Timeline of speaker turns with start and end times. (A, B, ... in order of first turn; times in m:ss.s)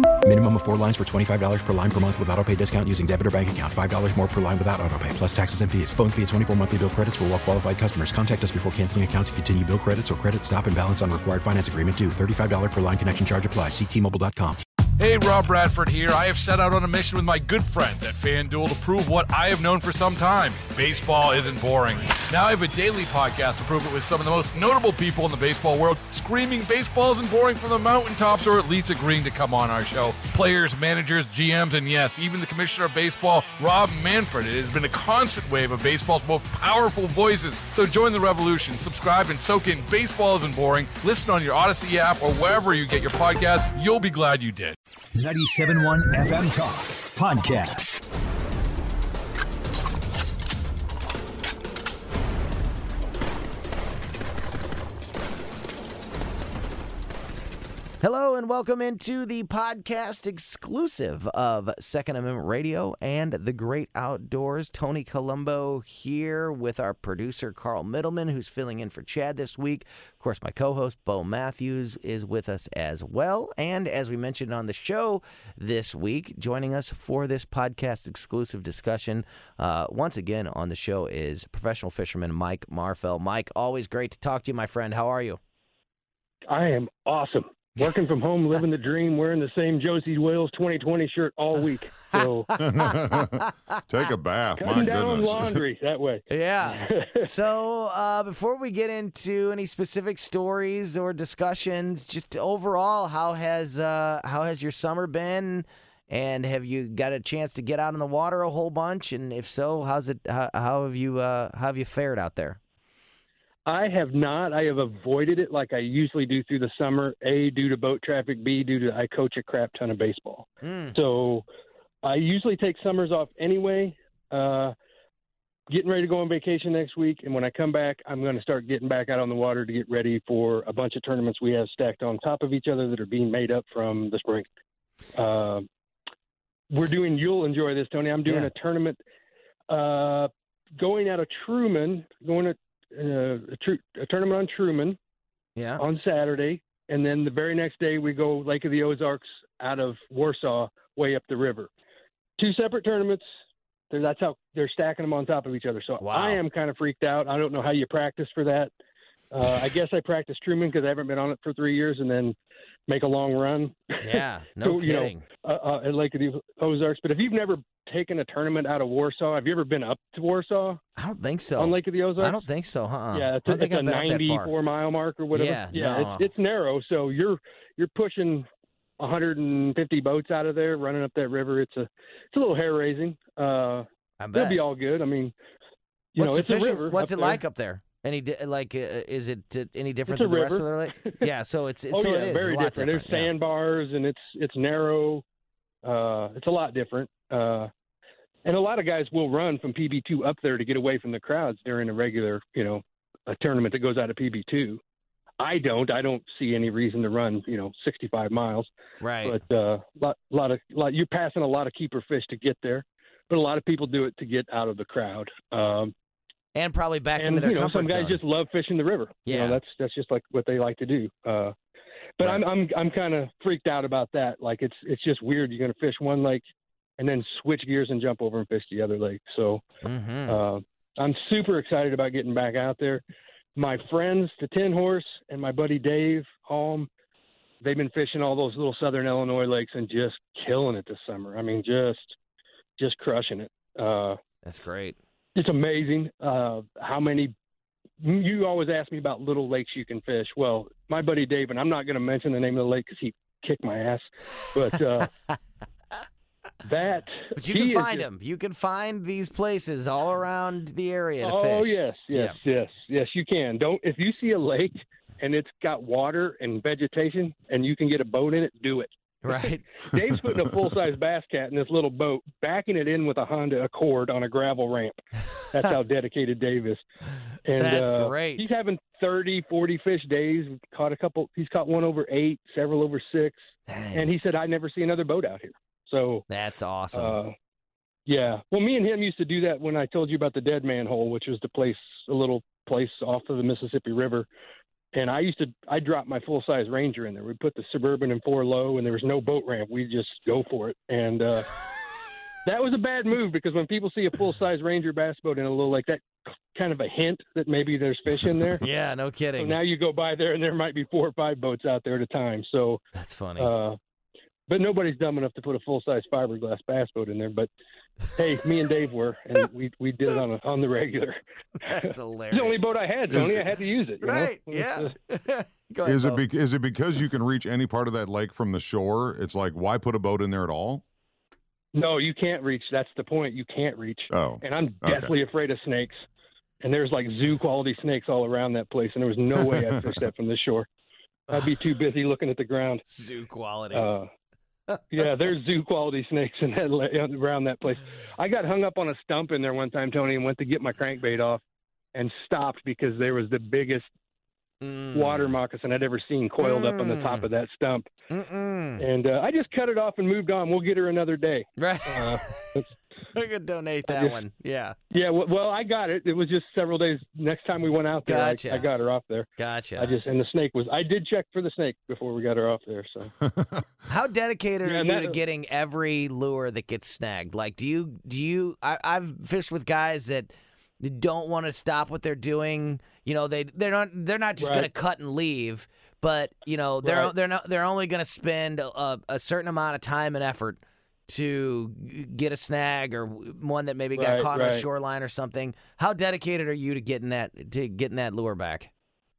0:00.2-0:14.6 A
0:15.0-0:44.8 B
0:45.1-0:48.0 A
0:58.0-1:25.4 C
1:26.5-1:32.5 D
1:32.1-1:33.5 C
1:32.6-1:35.6 E
1:34.6-1:37.3 D
1:36.3-1:52.6 C
1:53.6-2:01.4 D
2:00.6-2:01.0 C
2:02.0-2:04.7 D
2:05.7-2:14.5 D
2:15.1-2:15.6 D
2:16.7-2:19.0 D
2:19.7-2:25.0 D
2:25.6-2:25.8 C
2:25.8-2:31.7 D
2:32.4-2:33.2 D
2:33.9-2:38.7 D
2:36.0-2:36.4 C
2:39.3-2:42.3 D
2:42.9-2:50.8 D
2:44.0-2:45.2 C
2:51.0-2:54.5 C
2:51.6-2:52.4 D
2:53.1-2:58.5 D
2:55.3-2:56.3 C
2:59.0-3:05.3 D
3:04.2-3:04.6 C
3:06.1-3:07.4 D
3:06.2-3:13.3 C
3:10.1-3:11.2 D
3:11.9-3:15.2 D
3:15.8-3:17.7 D
3:18.4-3:24.8 D
3:25.4-3:28.7 D
3:29.0-3:29.4 C
3:29.2-3:35.9 D
3:36.5-3:38.2 C
3:37.2-3:41.5 D
3:39.3-3:39.6 C
3:42.2-3:46.4 D
3:47.0-3:49.6 D
3:49.8-3:50.4 C
3:50.3-3:53.0 D
3:53.6-3:56.9 D
3:57.6-4:02.2 D
4:02.8-4:04.2 D
4:04.4-4:05.0 C
4:05.4-4:07.3 D
4:08.0-4:15.1 D
4:16.6-4:18.1 D
4:17.3-4:22.4 C
4:21.2-4:36.8 D
4:29.2-4:29.6 C
4:37.4-4:43.4 D
4:37.6-4:38.5 C
4:43.7-4:44.1 C
4:43.9-4:46.2 D
4:46.3-4:47.2 C
4:46.9-4:47.3 D
4:48.1-4:54.2 D
4:54.9-5:01.5 D
5:02.4-5:08.6 D
5:08.6-5:09.6 C
5:09.4-5:12.8 D
5:12.9-5:13.5 C
5:13.4-5:13.8 D
5:14.5-5:17.5 D
5:18.1-5:24.9 D
5:21.6-5:22.6 C
5:23.1-5:23.4 E
5:24.0-5:26.2 C
5:25.8-5:30.8 E
5:31.7-5:36.0 D
5:34.1-5:35.1 E
5:36.6-5:40.7 D
5:39.4-5:39.7 E
5:41.3-5:41.6 C
5:41.3-5:42.8 D
5:42.9-5:43.9 C
5:43.7-5:44.1 D
5:44.9-5:51.4 D
5:51.9-5:53.9 D
5:54.6-5:55.3 C
5:54.9-5:57.9 D
5:56.4-5:57.3 C
5:58.1-5:58.8 C
5:58.8-6:02.7 D
6:01.6-6:02.6 C
6:03.1-6:04.8 C
6:03.9-6:04.2 D
6:04.9-6:13.1 D
6:08.0-6:08.7 C
6:09.4-6:10.0 C
6:13.3-6:13.6 E
6:13.9-6:38.7 C
6:14.6-6:15.2 D
6:24.4-6:24.7 D
6:26.8-6:27.1 D
6:33.9-6:34.6 D